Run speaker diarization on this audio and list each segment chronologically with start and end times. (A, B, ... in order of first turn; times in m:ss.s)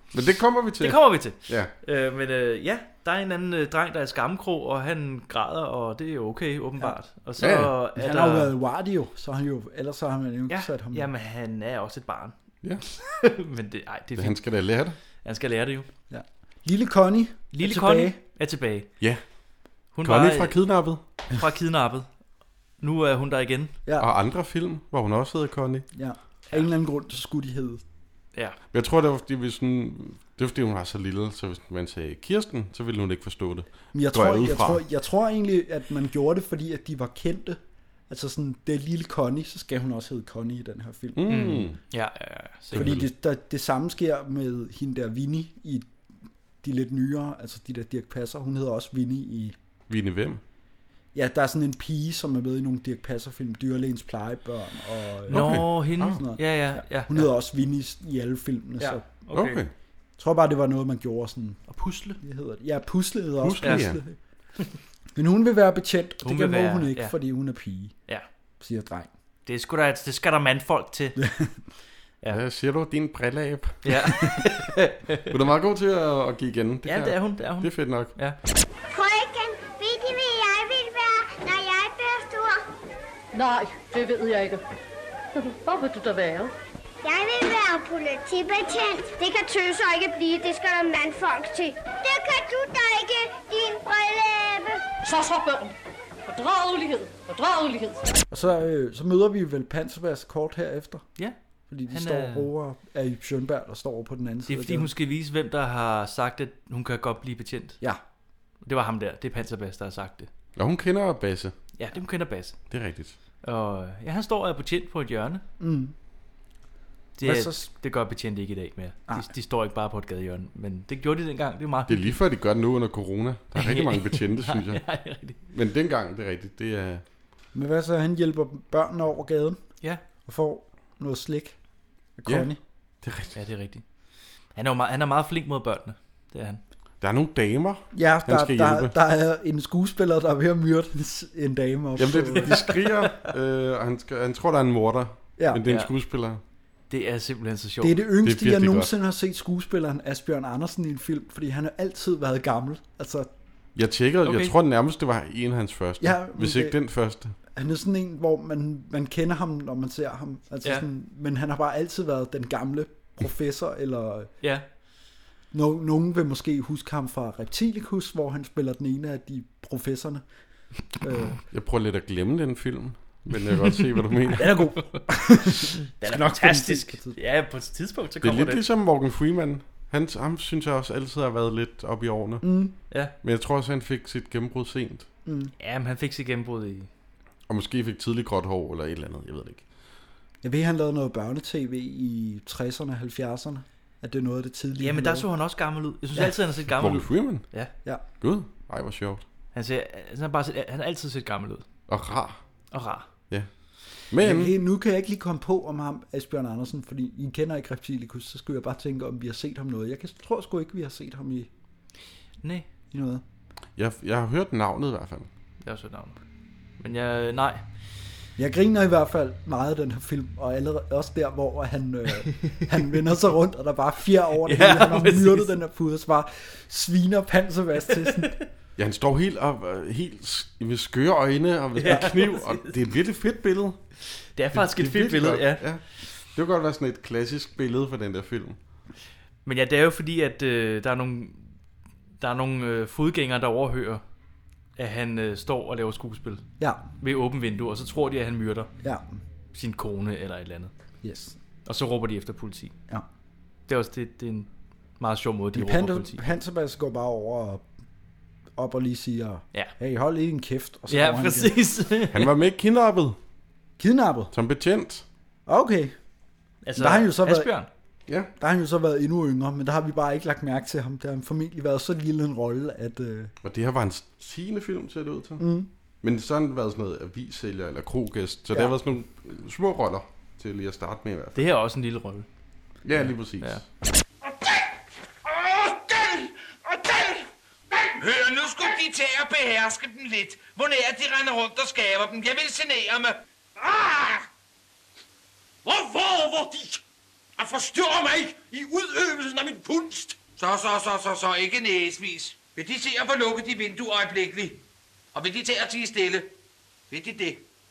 0:00.1-0:01.7 A
0:00.8-0:08.5 B
0:07.4-0:07.7 A
0:08.0-0:11.1 C
0:10.5-0:14.4 B
0:14.1-0:15.0 A
0:15.2-0:15.9 B
0:16.1-0:18.2 C
0:17.5-0:18.9 B
0:19.9-0:20.6 B
0:20.0-0:21.0 A
0:21.3-0:22.1 B
0:22.8-0:23.7 B
0:24.0-0:25.8 A
0:25.9-0:27.8 C
0:28.7-0:34.8 A
0:33.9-0:41.2 C
0:41.2-0:41.8 A
0:41.3-0:43.0 B
0:42.7-0:43.1 A
0:42.7-0:45.9 C
0:46.6-0:49.6 C
0:49.9-0:50.4 A
0:51.1-0:56.4 C
0:55.3-0:56.2 A
0:55.3-0:57.3 B
0:57.0-0:59.0 C
0:58.8-0:59.6 B
0:59.3-0:59.7 A
1:00.2-1:01.6 C
1:01.7-1:02.2 B
1:02.2-1:04.1 C
1:03.4-1:04.0 A
1:05.1-1:07.9 C
1:06.2-1:07.1 B
1:08.6-1:09.1 C
1:09.4-1:11.2 B
1:11.2-1:11.5 C
1:12.3-1:13.8 A
1:13.8-1:15.3 B
1:15.3-1:18.1 A
1:16.8-1:18.4 B
1:18.9-1:22.6 D
1:23.3-1:24.6 E
1:25.4-1:26.5 E
1:27.0-1:34.8 D
1:35.0-1:35.7 E
1:36.3-1:38.1 E
1:38.3-1:41.1 C
1:41.7-1:44.9 C
1:41.9-1:42.5 B
1:44.5-1:47.8 B
1:48.6-1:50.3 B
1:50.6-1:51.5 A
1:51.8-1:52.6 B
1:52.7-1:53.1 A
1:53.4-1:55.4 B
1:55.6-1:55.9 C
1:57.2-2:02.1 B
1:57.2-1:57.7 C
2:01.9-2:04.8 A
2:03.6-2:05.4 B
2:05.5-2:07.0 A
2:07.5-2:09.6 C
2:10.2-2:11.6 C
2:12.2-2:12.6 C
2:13.0-2:13.3 A
2:13.3-2:13.8 B
2:14.5-2:16.6 B
2:17.0-2:18.9 A
2:17.9-2:22.6 C
2:22.0-2:26.4 A
2:22.5-2:22.8 B
2:26.9-2:28.0 B
2:27.8-2:33.3 C
2:28.2-2:28.9 A
2:33.7-2:37.3 A
2:34.2-2:34.5 B
2:36.0-2:36.8 C
2:37.5-2:44.3 C
2:45.5-2:50.2 C
2:51.0-2:51.4 C
2:51.5-2:54.6 A
2:54.3-2:57.2 C
2:54.9-2:58.6 B
2:58.2-3:02.4 A
3:02.4-3:02.7 C
3:03.2-3:05.1 A
3:05.2-3:05.5 C
3:05.6-3:06.9 B
3:07.5-3:09.6 A
3:10.4-3:15.3 C
3:14.8-3:17.7 B
3:16.7-3:17.4 A
3:18.2-3:19.2 A
3:19.5-3:21.6 B
3:21.9-3:22.4 A
3:22.7-3:23.1 B
3:24.1-3:24.5 A
3:24.2-3:31.5 C
3:32.4-3:32.7 B
3:32.9-3:33.2 C
3:33.8-3:35.3 A
3:35.6-3:36.2 B
3:36.8-3:37.6 B
3:38.4-3:48.4 C
3:44.4-3:45.5 B
3:48.0-3:48.4 B
3:48.8-3:53.8 A
3:51.7-3:52.7 B
3:54.4-3:55.6 B
3:54.5-3:58.6 A
3:59.4-4:01.5 B
4:02.2-4:04.0 B
4:04.8-4:06.4 B
4:06.6-4:06.8 C
4:07.0-4:08.7 B
4:08.8-4:09.2 C
4:09.5-4:10.7 B
4:11.0-4:11.4 C
4:11.6-4:12.7 B
4:13.7-4:16.2 B
4:15.5-4:17.6 C
4:18.6-4:21.6 C
4:20.9-4:22.3 B
4:22.1-4:23.2 A
4:23.8-4:24.3 C
4:24.3-4:25.0 A
4:25.5-4:26.0 C
4:26.6-4:27.7 B
4:26.8-4:27.5 C
4:28.4-4:33.3 C
4:33.4-4:35.4 A
4:35.4-4:35.7 C
4:36.0-4:41.4 A
4:41.4-4:42.2 B
4:42.8-4:43.6 A
4:44.2-4:44.7 F
4:45.2-4:54.2 F
4:55.6-4:56.8 F
4:57.4-5:04.6 F
5:05.1-5:06.3 F
5:06.9-5:07.4 F